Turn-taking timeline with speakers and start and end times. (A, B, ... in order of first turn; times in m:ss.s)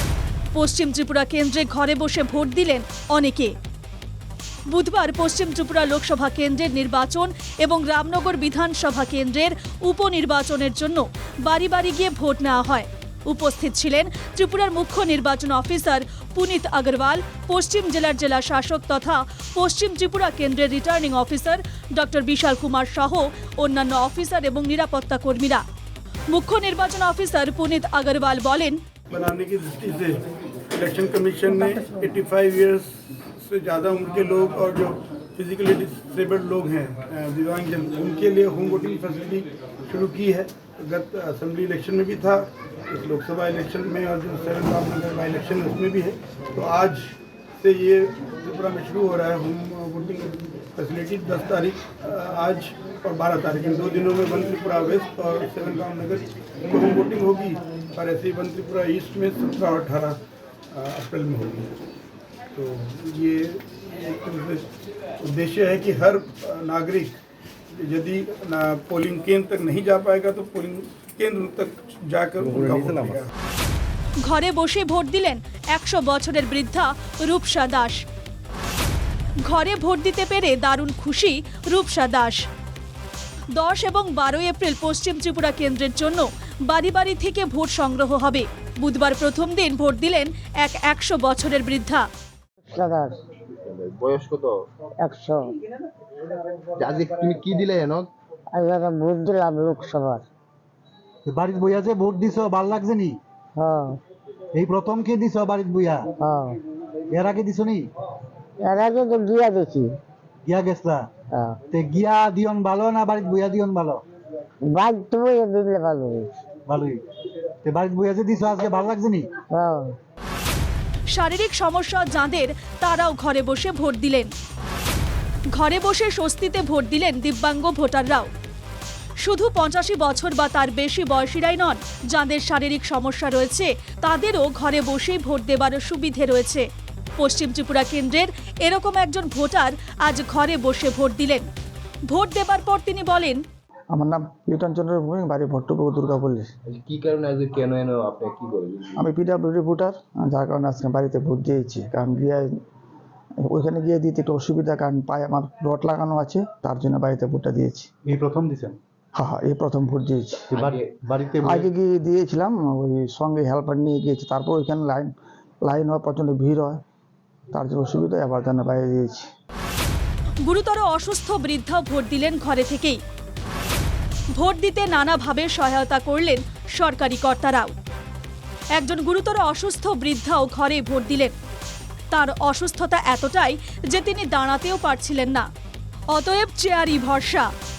0:00.5-0:03.5 A
0:04.7-0:25.6 A
0:26.3-0:28.8 A
0:29.1-1:00.2 B
1:00.7-1:01.8 B
1:02.5-1:07.1 B
1:07.7-1:13.3 B
1:12.9-1:13.2 C
1:14.2-1:18.0 A
1:19.4-1:22.4 A
1:23.5-1:32.1 A
1:32.7-1:33.2 D
1:33.4-1:34.6 C
1:35.1-1:35.5 D
1:36.8-1:38.1 C
1:38.5-1:40.2 D
1:41.2-1:43.2 E
1:43.6-1:44.0 D
1:44.5-1:46.1 E
1:46.2-1:46.6 D
1:47.1-1:47.9 E
1:48.6-1:49.9 D
1:50.4-1:51.1 E
1:51.3-1:51.6 D
1:51.7-1:54.0 E
1:54.7-1:56.3 D
1:56.7-1:57.0 E
1:57.6-1:59.4 E
1:59.5-1:59.9 D
2:01.1-2:04.3 A
2:05.5-2:08.3 A
2:09.2-2:21.5 A
2:22.1-2:23.4 A
2:23.9-2:26.4 F
2:26.7-2:29.0 C
2:29.0-2:32.5 F
2:33.4-2:37.9 F
2:38.0-2:38.8 E
2:39.2-2:40.5 F
2:40.5-2:41.7 E
2:40.6-2:41.0 C
2:41.4-2:45.1 F
2:45.6-2:46.8 F
2:47.5-2:49.2 F
2:50.4-2:53.0 A
2:54.3-2:57.7 A
2:58.7-3:01.3 A
3:02.1-3:05.5 A
3:06.1-3:07.5 A